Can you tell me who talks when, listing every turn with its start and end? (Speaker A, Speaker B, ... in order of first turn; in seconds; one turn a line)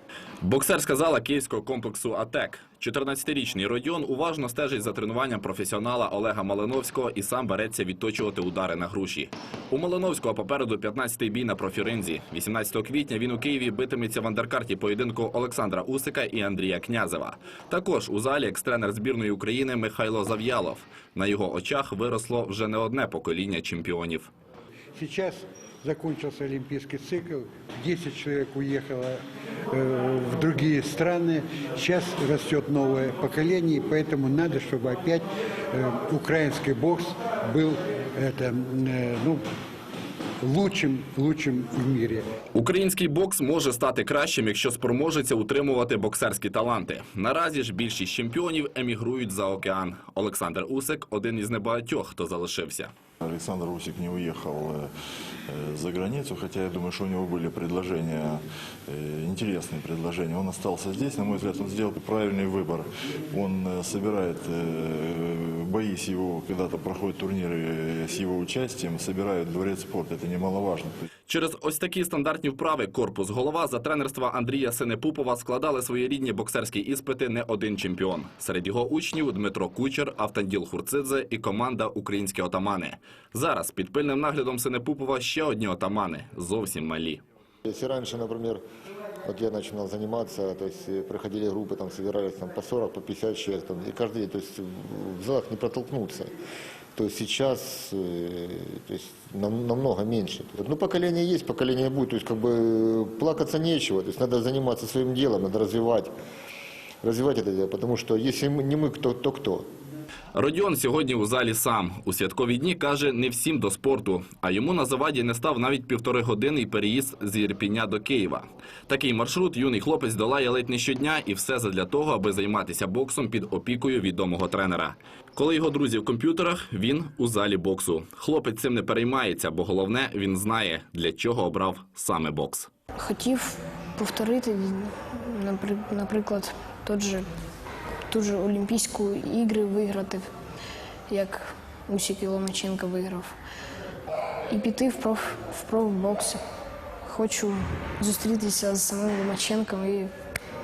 Speaker A: 0.4-24.3
Speaker B: 24.9-39.4
Speaker B: 40.4-42.3
Speaker A: 42.5-52.9
Speaker C: 53.2-54.9
Speaker C: 55.5-70.9
Speaker A: 71.3-87.2
Speaker D: 87.6-88.6
Speaker D: 89.2-96.3
Speaker D: 96.9-106.1
Speaker D: 107.0-109.7
Speaker A: 110.3-132.7
Speaker E: 133.0-137.2
Speaker E: 138.1-140.3
Speaker E: 141.1-143.3
Speaker E: 144.5-146.4
Speaker E: 147.0-150.1